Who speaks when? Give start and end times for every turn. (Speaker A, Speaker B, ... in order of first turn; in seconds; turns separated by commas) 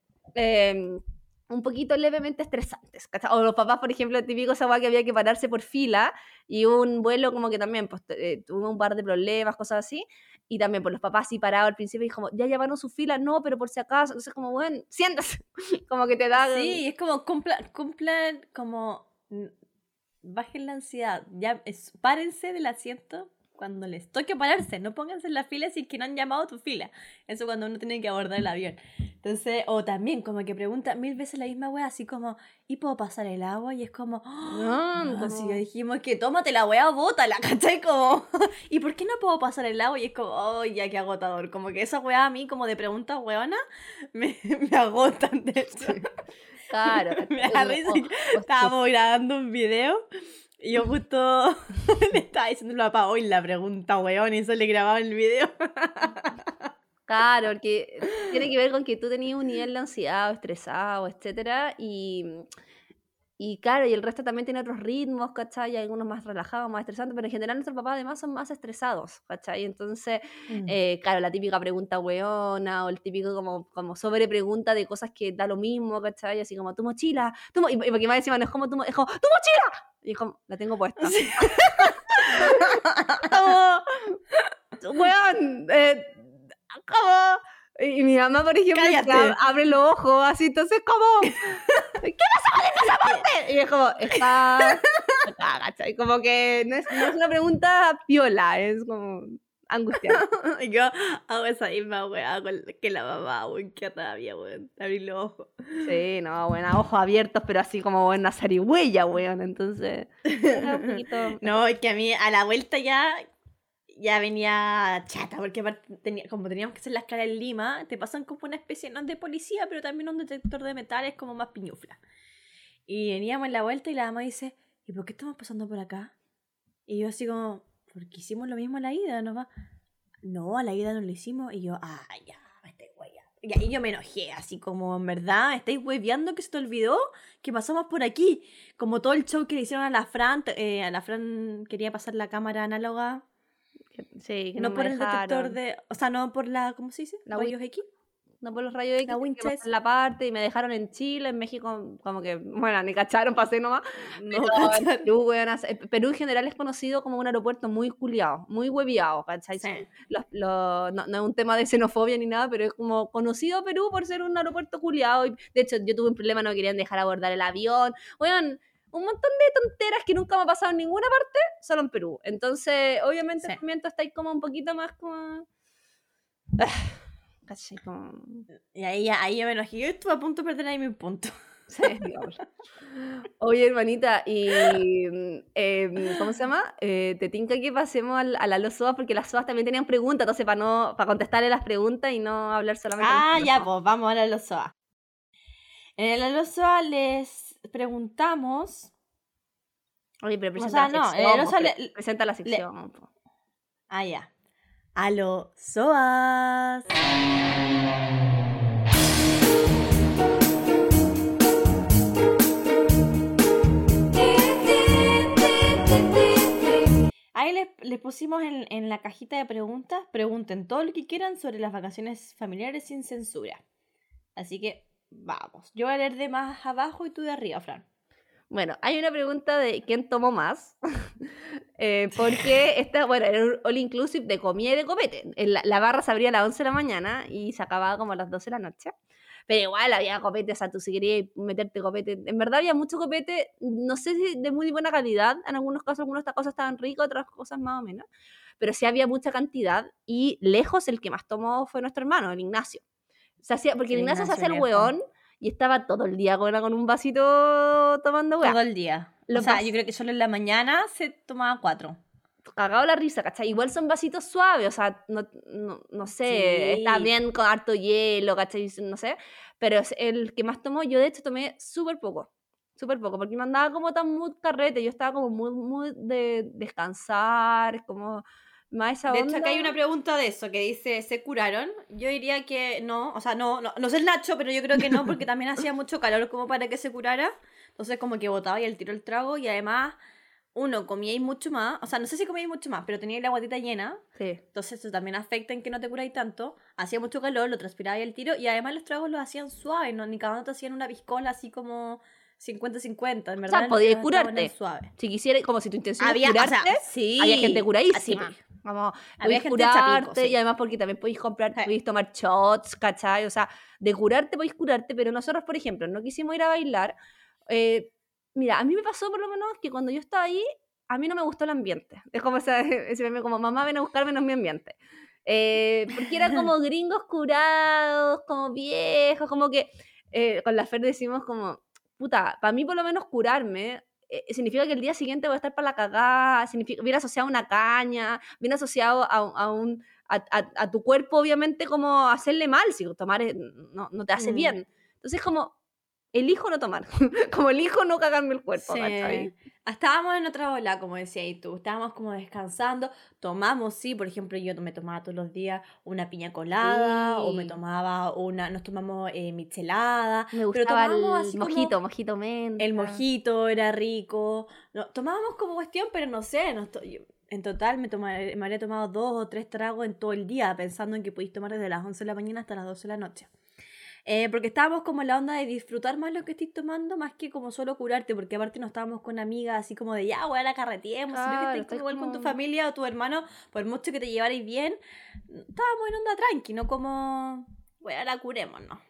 Speaker A: 0.3-16.8, Speaker B: 16.4-19.5, Speaker B: 20.2-43.6, Speaker A: 34.5-35.6, Speaker B: 44.1-46.1, Speaker A: 46.7-48.7, Speaker B: 46.8-50.0, Speaker B: 50.6-56.7, Speaker A: 57.1-62.5, Speaker A: 63.4-84.2, Speaker B: 70.5-70.7, Speaker B: 81.0-83.4, Speaker A: 84.8-100.2, Speaker B: 88.7-89.4, Speaker B: 91.4-91.9, Speaker B: 94.1-95.2, Speaker B: 100.1-105.9, Speaker A: 105.8-111.5, Speaker B: 110.2-113.2, Speaker B: 113.9-122.0, Speaker B: 122.9-126.1, Speaker B: 126.9-129.5, Speaker B: 130.2-143.2, Speaker A: 143.9-145.6, Speaker B: 144.6-147.9, Speaker A: 147.3-147.5, Speaker A: 148.4-175.4, Speaker B: 149.1-149.7, Speaker B: 154.2-155.1, Speaker B: 159.6-159.8, Speaker A: 176.6-178.5, Speaker B: 178.7-181.9, Speaker A: 181.7-182.4, Speaker A: 183.2-193.7, Speaker B: 193.0-194.7, Speaker B: 196.0-198.9, Speaker A: 200.2-203.1, Speaker B: 200.6-201.9, Speaker B: 203.9-204.3, Speaker B: 204.9-206.8, Speaker B: 214.9-215.2, Speaker B: 217.3-223.6, Speaker B: 224.3-227.8, Speaker A: 228.5-238.9, Speaker A: 239.5-248.1, Speaker A: 248.6-252.8, Speaker A: 253.4-258.6, Speaker B: 253.9-254.9, Speaker B: 258.4-262.0, Speaker A: 259.3-259.7, Speaker A: 262.5-279.7, Speaker B: 266.2-267.1, Speaker B: 279.1-290.0, Speaker B: 290.5-294.0, Speaker A: 294.2-294.4, Speaker B: 294.5-304.9, Speaker A: 303.5-316.9, Speaker B: 306.0-308.4, Speaker B: 309.2-310.4, Speaker A: 317.5-345.5, Speaker B: 326.1-326.4, Speaker B: 344.2-344.6, Speaker A: 346.1-349.3, Speaker B: 348.6-361.8, Speaker A: 356.6-357.5, Speaker A: 360.3-363.0, Speaker B: 362.6-373.3, Speaker B: 374.1-388.8, Speaker A: 381.1-382.3